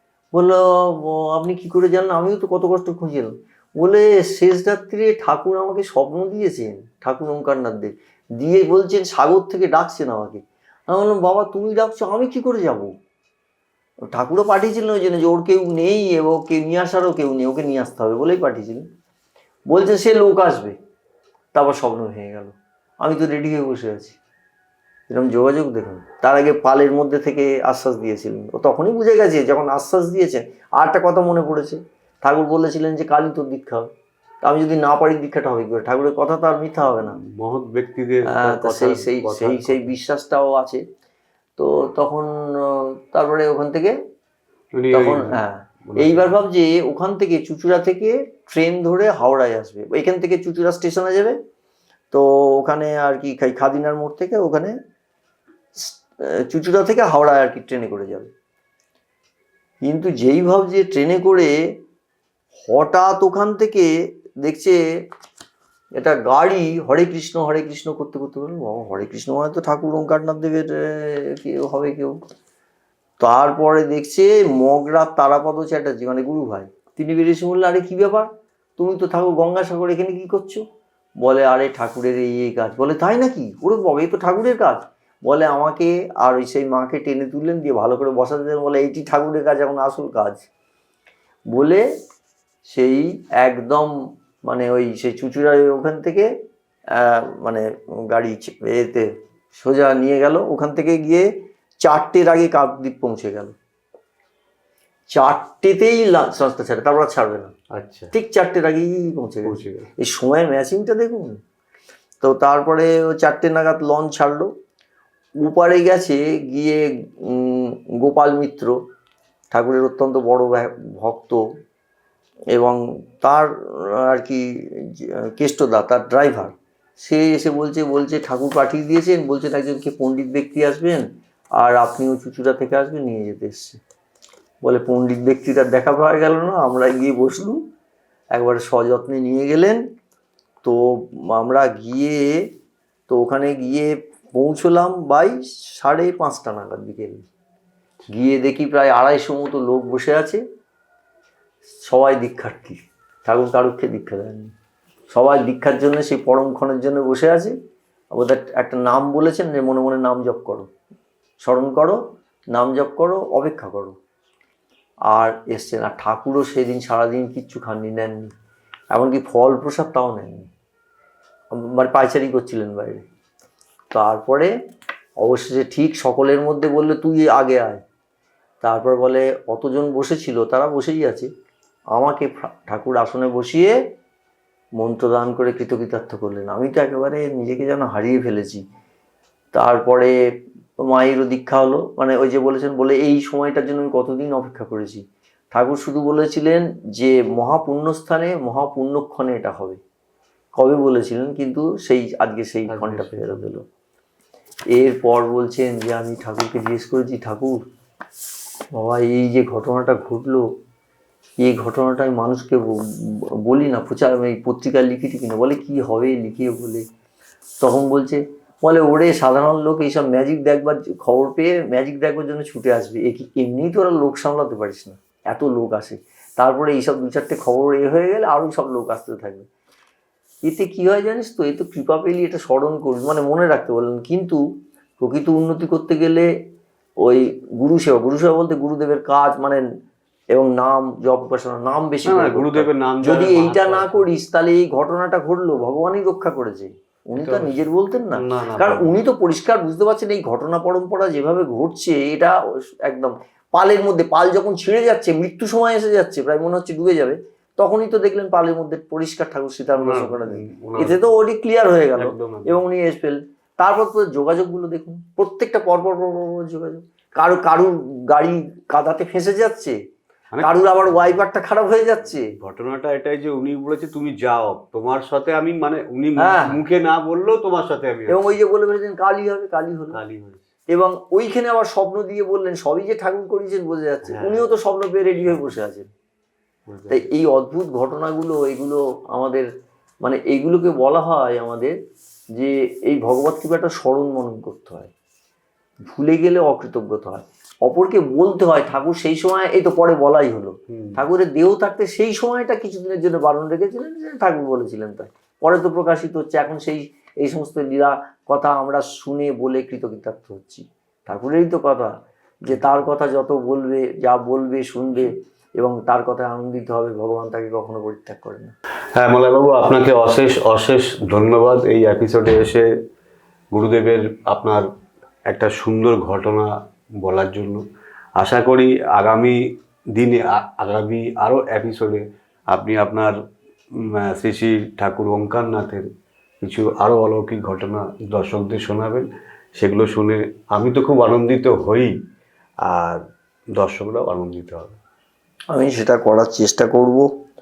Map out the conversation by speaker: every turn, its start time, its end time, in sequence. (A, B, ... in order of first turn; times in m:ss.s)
0:00.3-0:12.9 A
0:14.1-0:18.9 A
0:19.7-0:20.8 A
0:21.5-0:24.2 A
0:25.1-0:33.9 A
0:34.4-0:37.2 A
0:37.0-0:39.9 B
0:38.3-0:40.8 A
0:41.6-0:44.0 A
0:44.7-0:46.4 B
0:44.9-0:51.4 A
0:52.1-0:54.7 A
0:55.7-0:58.3 A
0:59.8-1:01.6 A
1:02.6-1:03.9 A
1:04.4-1:04.8 A
1:06.0-1:12.2 A
1:13.2-1:20.6 A
1:21.2-1:30.4 A
1:31.5-1:31.8 A
1:32.6-1:36.3 A
1:36.9-1:41.3 A
1:41.8-1:43.5 A
1:45.1-1:47.5 A
1:47.7-1:48.1 B
1:48.1-1:51.4 A
1:49.4-1:49.9 B
1:52.2-1:54.5 A
1:55.4-1:58.8 A
1:59.5-2:01.4 A
2:02.5-2:11.0 A
2:11.6-2:13.8 A
2:14.6-2:17.6 A
2:18.3-2:19.8 A
2:20.6-2:22.5 A
2:23.1-2:27.2 A
2:28.1-2:30.4 A
2:31.8-2:34.5 A
2:35.1-2:37.5 A
2:38.1-2:40.7 A
2:41.4-2:42.0 A
2:42.5-2:44.0 A
2:45.1-2:48.3 A
2:48.9-2:50.5 A
2:51.5-2:53.0 A
2:53.9-2:54.5 A
2:55.2-2:57.8 A
2:58.6-3:01.3 A
3:01.9-3:03.8 A
3:04.8-3:08.6 A
3:09.5-3:10.1 A
3:10.8-3:19.8 A
3:20.6-3:23.6 A
3:22.7-3:23.5 B
3:24.7-3:27.6 A
3:28.7-3:30.5 A
3:31.4-3:36.8 A
3:37.6-3:49.5 A
3:50.4-3:54.4 A
3:55.0-3:56.3 A
3:57.0-3:59.6 A
4:00.3-4:29.8 A
4:02.0-4:04.0 B
4:07.1-4:08.9 B
4:19.8-4:21.1 B
4:22.0-4:22.6 B
4:30.3-4:31.2 B
4:30.4-4:32.3 A
4:32.4-4:38.4 B
4:36.2-4:36.6 A
4:38.1-4:40.0 A
4:39.9-4:40.4 B
4:40.7-4:45.9 A
4:44.0-4:44.4 B
4:46.7-4:47.1 B
4:46.9-4:49.5 A
4:50.0-4:51.7 A
4:52.4-4:54.9 A
4:55.8-5:11.9 A
5:00.7-5:01.0 B
5:12.4-5:18.5 A
5:19.0-5:22.7 B
5:23.5-5:24.6 B
5:25.3-5:26.5 B
5:27.0-5:27.6 B
5:28.2-5:29.4 B
5:30.0-5:33.1 B
5:33.8-5:35.8 B
5:36.4-5:41.9 B
5:42.6-5:43.0 B
5:43.5-5:44.8 B
5:45.5-5:47.1 A